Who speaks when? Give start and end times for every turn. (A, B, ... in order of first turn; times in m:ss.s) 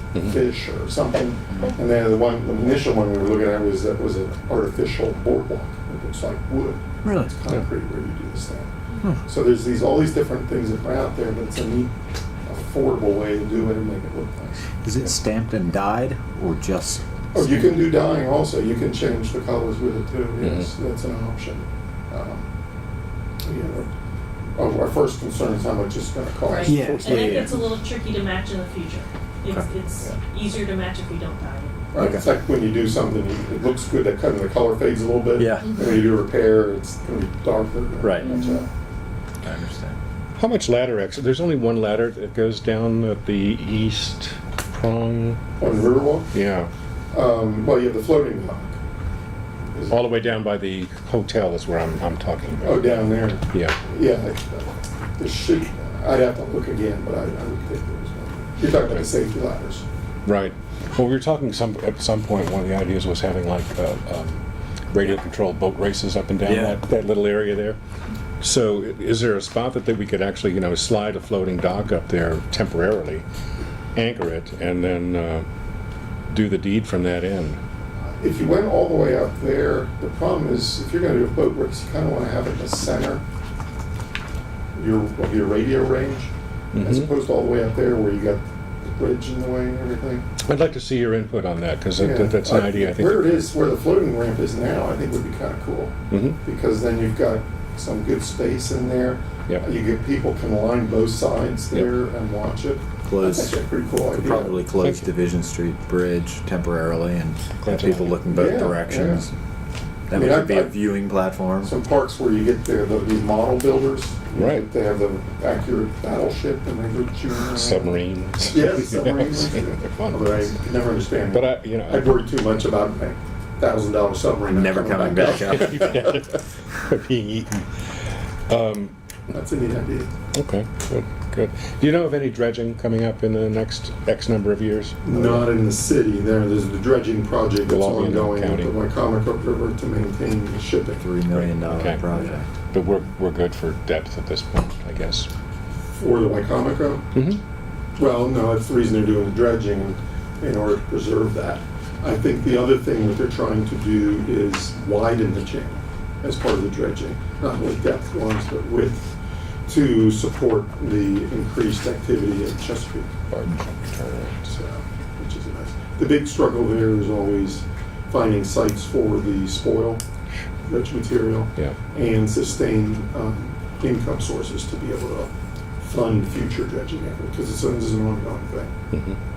0:00.2-0:08.7 A
0:07.0-0:07.3 B
0:09.2-0:11.9 A
0:12.4-0:14.6 A
0:14.8-0:17.8 B
0:17.3-0:22.5 A
0:23.4-0:23.9 A
0:24.6-0:27.3 A
0:26.4-0:31.8 C
0:26.6-0:27.6 B
0:31.9-0:38.7 A
0:32.0-0:32.2 B
0:35.4-0:35.8 B
0:38.0-0:38.3 B
0:39.4-0:40.0 B
0:40.4-0:45.4 D
0:45.6-0:46.3 A
0:46.3-0:46.7 D
0:47.1-0:48.8 A
0:49.9-0:52.8 D
0:52.6-0:59.8 A
1:00.2-1:07.8 D
1:06.4-1:06.8 B
1:08.4-1:13.2 D
1:14.0-1:15.5 D
1:16.3-1:17.6 D
1:18.0-1:23.2 A
1:24.7-1:30.2 A
1:26.8-1:27.0 D
1:30.5-1:33.3 D
1:32.0-1:44.7 A
1:43.1-1:43.6 B
1:44.1-1:49.3 B
1:47.6-1:48.1 D
1:48.2-1:49.3 A
1:50.1-1:51.7 B
1:50.1-1:50.8 A
1:51.6-2:06.2 A
1:57.7-2:00.2 D
2:01.3-2:02.0 D
2:04.5-2:06.0 B
2:05.6-2:07.6 D
2:08.5-2:08.9 D
2:09.3-2:10.1 A
2:10.4-2:15.0 D
2:15.0-2:21.0 A
2:17.7-2:18.7 D
2:21.0-2:22.5 B
2:21.7-2:22.0 D
2:22.7-2:25.3 D
2:25.9-2:27.0 A
2:28.0-2:43.1 A
2:43.3-2:44.4 D
2:44.4-2:50.0 A
2:50.6-2:55.3 A
2:55.8-2:58.7 A